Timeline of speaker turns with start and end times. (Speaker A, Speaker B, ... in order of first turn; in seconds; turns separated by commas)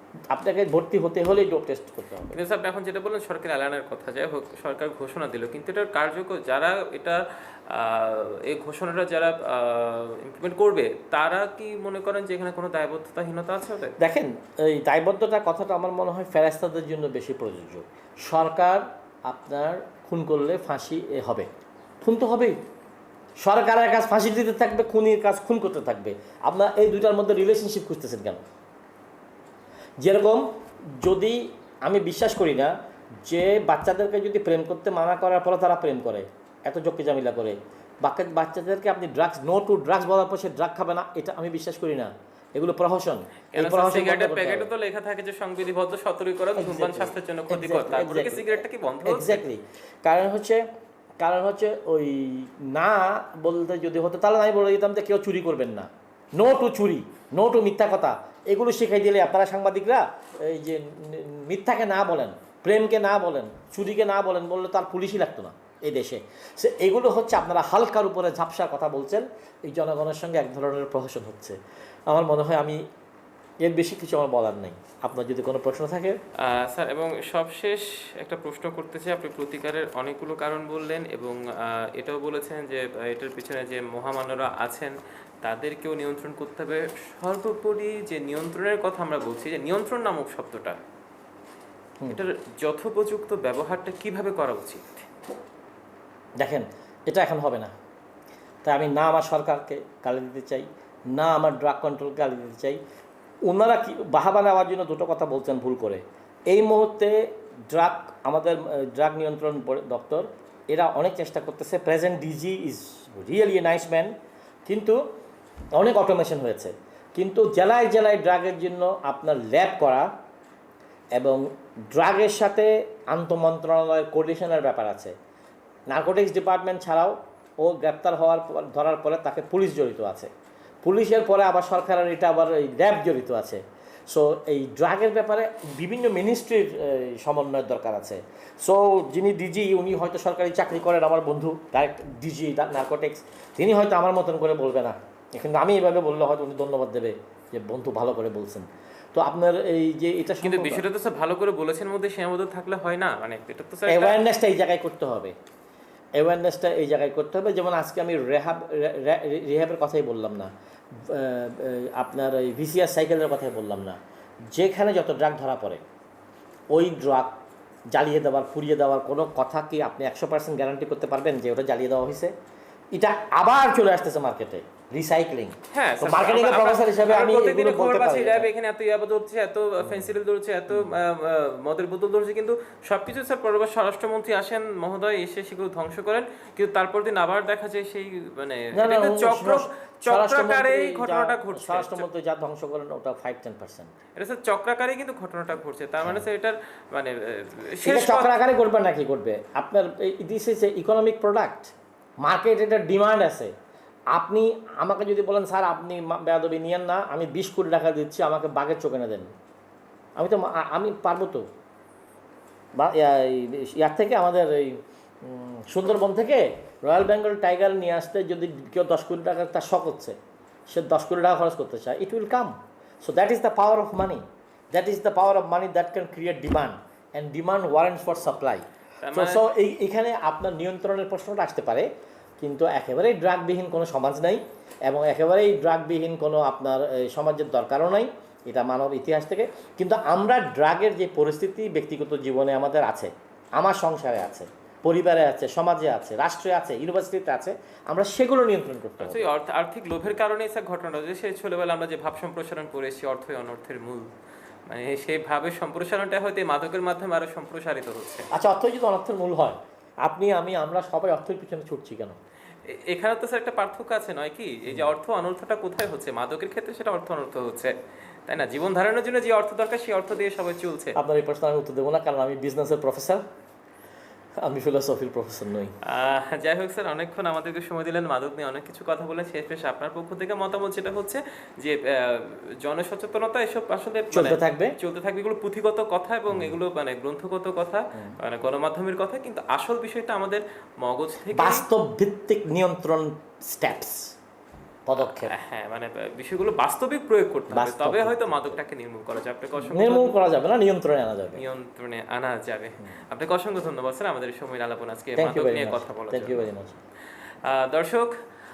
Speaker A: 0.3-2.4, Speaker B: 2.3-14.0, Speaker A: 14.0-21.5, Speaker A: 22.0-22.6, Speaker A: 23.4-28.4, Speaker A: 30.0-30.5, Speaker A: 31.0-32.7, Speaker A: 33.2-44.7, Speaker B: 43.5-49.4, Speaker A: 46.5-50.6, Speaker A: 51.2-71.6, Speaker A: 72.1-72.8, Speaker A: 73.6-76.2, Speaker B: 76.4-90.8, Speaker B: 92.1-95.1, Speaker A: 96.4-97.7, Speaker A: 98.6-102.8, Speaker A: 103.5-114.1, Speaker A: 114.7-115.0, Speaker A: 115.8-120.1, Speaker A: 121.2-125.2, Speaker A: 125.9-130.3, Speaker A: 130.8-150.8, Speaker B: 150.4-154.2, Speaker A: 153.9-155.3, Speaker A: 156.2-164.0, Speaker A: 164.5-165.8, Speaker A: 166.7-167.4, Speaker A: 167.9-172.3, Speaker A: 172.9-178.5, Speaker B: 175.7-192.1, Speaker A: 179.8-180.1, Speaker A: 188.7-193.9, Speaker B: 194.2-198.3, Speaker A: 197.8-203.5, Speaker A: 204.1-209.3, Speaker A: 210.2-211.4, Speaker A: 212.8-220.2, Speaker A: 220.7-249.2, Speaker B: 229.0-229.5, Speaker B: 249.0-254.1, Speaker B: 254.7-258.3, Speaker A: 258.3-262.2, Speaker B: 262.7-271.0, Speaker A: 271.0-273.2, Speaker A: 274.4-275.8, Speaker B: 275.8-291.6, Speaker A: 284.1-284.8, Speaker A: 286.3-286.6, Speaker A: 291.4-294.1, Speaker A: 294.9-295.3, Speaker B: 295.0-300.1, Speaker A: 297.5-298.6, Speaker A: 299.6-301.4, Speaker B: 301.4-306.5, Speaker A: 305.2-306.8, Speaker B: 307.4-308.1